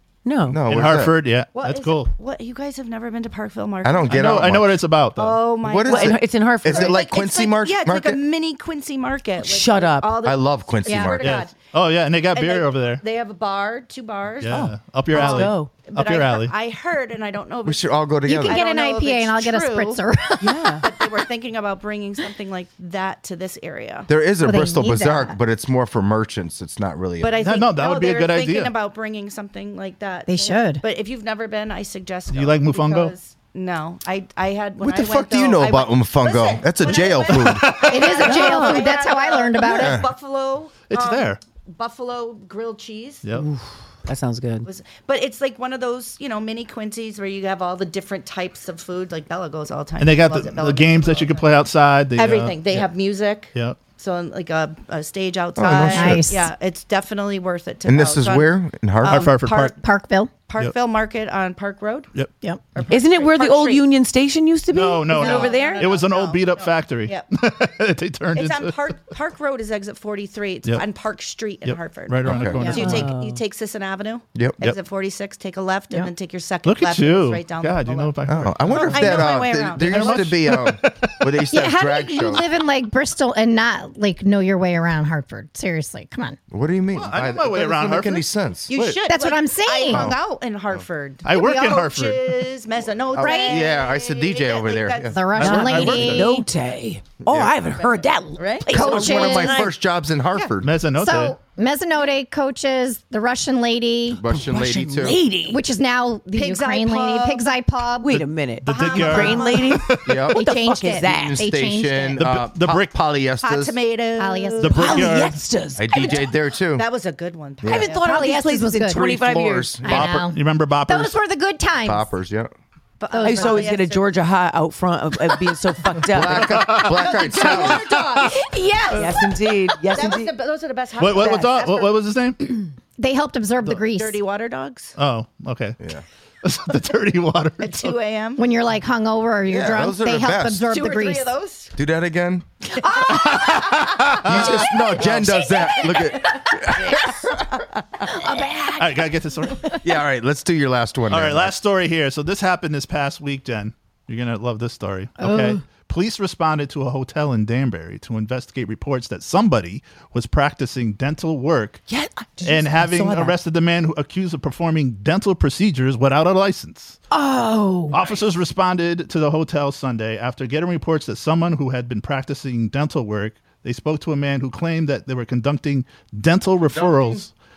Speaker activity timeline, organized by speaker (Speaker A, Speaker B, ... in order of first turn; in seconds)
Speaker A: 0.2-0.6, 5.8-7.0, 9.4-10.2, 14.5-15.7, 20.4-20.8, 38.2-38.9, 43.3-44.7, 62.9-65.9, 72.7-73.4, 95.4-99.7, 104.3-105.6, 108.0-111.5, 114.8-116.2, 117.7-119.8, 123.2-126.7, 128.9-130.3, 161.9-163.3
Speaker B: 0.5-1.1, 3.8-4.8, 5.6-8.2, 10.2-11.4, 17.6-18.6, 24.1-27.4, 34.8-37.8, 39.7-40.1, 55.5-56.3, 57.9-59.3, 72.2-72.7, 78.3-82.4, 86.5-88.7, 89.9-90.2, 93.1-96.2, 97.3-97.5, 98.7-100.7, 104.1-105.2, 110.0-110.5, 111.0-113.7, 115.8-116.8, 117.6-118.0, 118.9-120.2, 121.8-122.5, 126.1-127.9, 139.5-140.7, 141.7-142.4, 144.0-147.4, 149.8-151.5, 176.7-177.2
Speaker C: 0.7-2.1, 4.1-5.4, 11.2-13.0, 14.4-16.5, 27.4-28.7, 32.3-33.1, 37.3-38.2, 40.9-41.4, 50.0-52.8, 59.1-59.7, 64.7-68.8, 71.6-73.1, 76.6-81.4, 86.9-89.0, 91.2-92.3, 95.3-96.3, 100.6-101.3, 108.6-110.3, 112.2-112.9, 114.6-115.4, 119.9-121.2, 126.1-128.4, 131.0-132.7, 134.9-135.8, 136.4-137.9, 143.1-145.3, 148.7-149.8, 151.1-161.8, 162.4-167.0, 167.9-177.3
Speaker D: 1.5-4.5, 5.2-11.6, 12.3-20.0, 20.8-24.1, 27.2-43.2, 44.6-51.5, 52.1-59.7, 60.5-62.1, 62.7-63.9, 65.1-67.3, 68.3-80.3, 88.7-95.6, 97.8-98.7, 106.3-107.5, 108.6-109.8, 113.4-115.1, 116.7-118.1, 123.0-124.1, 126.8-128.4, 129.9-131.9, 133.8-134.9, 137.6-138.4, 140.7-141.7, 142.8-148.2
Speaker E: 10.8-11.2, 18.2-21.1, 24.4-25.3, 30.3-30.8, 37.8-40.0, 55.9-56.5, 59.4-60.3, 65.2-65.6, 81.5-86.4, 89.1-90.1, 93.2-93.7, 95.1-96.5, 98.7-99.7, 101.0-104.2, 105.5-108.2, 110.3-112.2, 114.2-115.0, 118.0-119.1, 119.8-122.1, 123.1-123.7, 128.2-130.0, 133.0-134.2, 138.4-141.3, 142.8-143.6, 146.8-147.2, 148.0-149.8, 155.2-155.6, 167.1-168.0